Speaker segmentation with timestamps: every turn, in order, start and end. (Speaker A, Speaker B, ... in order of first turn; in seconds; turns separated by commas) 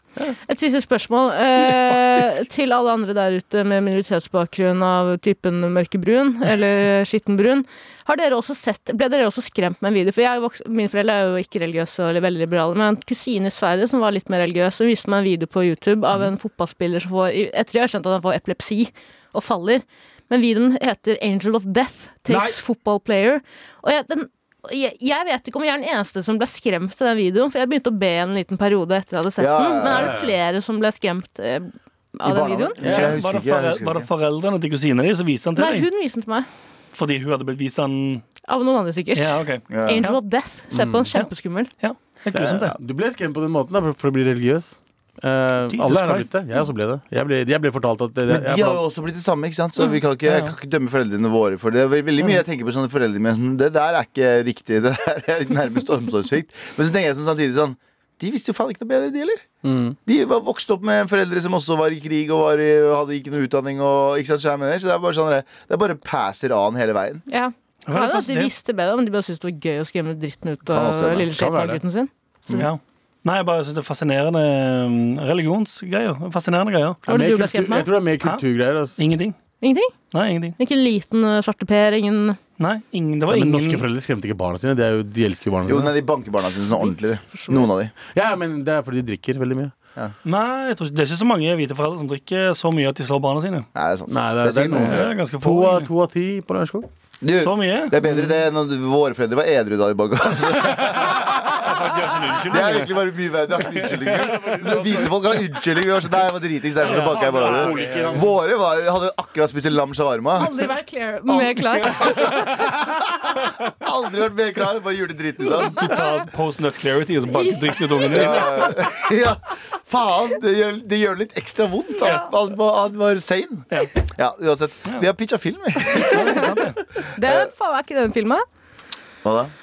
Speaker A: 0.5-32.8, Speaker B: 1.6-2.4, Speaker C: 22.3-22.6, Speaker C: 29.4-30.1, Speaker D: 29.9-30.4, Speaker C: 32.2-34.1, Speaker D: 32.8-33.2, Speaker B: 32.9-35.9, Speaker A: 35.6-36.5, Speaker B: 36.9-38.2, Speaker A: 38.5-41.7, Speaker B: 39.1-40.2, Speaker C: 39.7-40.0, Speaker D: 40.7-41.1, Speaker B: 41.8-42.8, Speaker D: 42.3-48.8, Speaker B: 45.7-46.3, Speaker C: 48.3-59.5, Speaker B: 50.3-50.5, Speaker D: 59.6-60.0, Speaker C: 60.1-67.2, Speaker A: 67.3-72.1, Speaker B: 67.9-68.5, Speaker C: 70.7-71.3, Speaker D: 71.3-71.8, Speaker B: 72.5-77.0, Speaker A: 77.1-77.9, Speaker D: 77.1-79.0, Speaker B: 79.0-79.4, Speaker A: 79.6-79.9, Speaker B: 80.1-80.6, Speaker A: 80.6-82.4, Speaker B: 82.6-83.8, Speaker D: 83.3-85.9, Speaker C: 85.7-87.9, Speaker A: 87.3-87.7, Speaker D: 88.1-89.7, Speaker B: 90.2-93.7, Speaker C: 93.8-95.1, Speaker D: 94.1-96.9, Speaker B: 94.7-95.9, Speaker C: 97.2-101.7, Speaker B: 97.4-98.0, Speaker B: 101.5-103.0, Speaker C: 102.5-110.6, Speaker D: 103.8-105.2, Speaker B: 106.8-108.3, Speaker D: 106.8-108.3, Speaker A: 110.3-112.4, Speaker C: 111.3-115.8, Speaker B: 115.6-118.7, Speaker A: 115.8-116.2, Speaker A: 117.3-118.4, Speaker C: 118.1-126.5, Speaker B: 126.0-126.8, Speaker A: 126.0-126.5, Speaker A: 127.1-128.4, Speaker C: 127.2-127.5, Speaker C: 129.2-129.5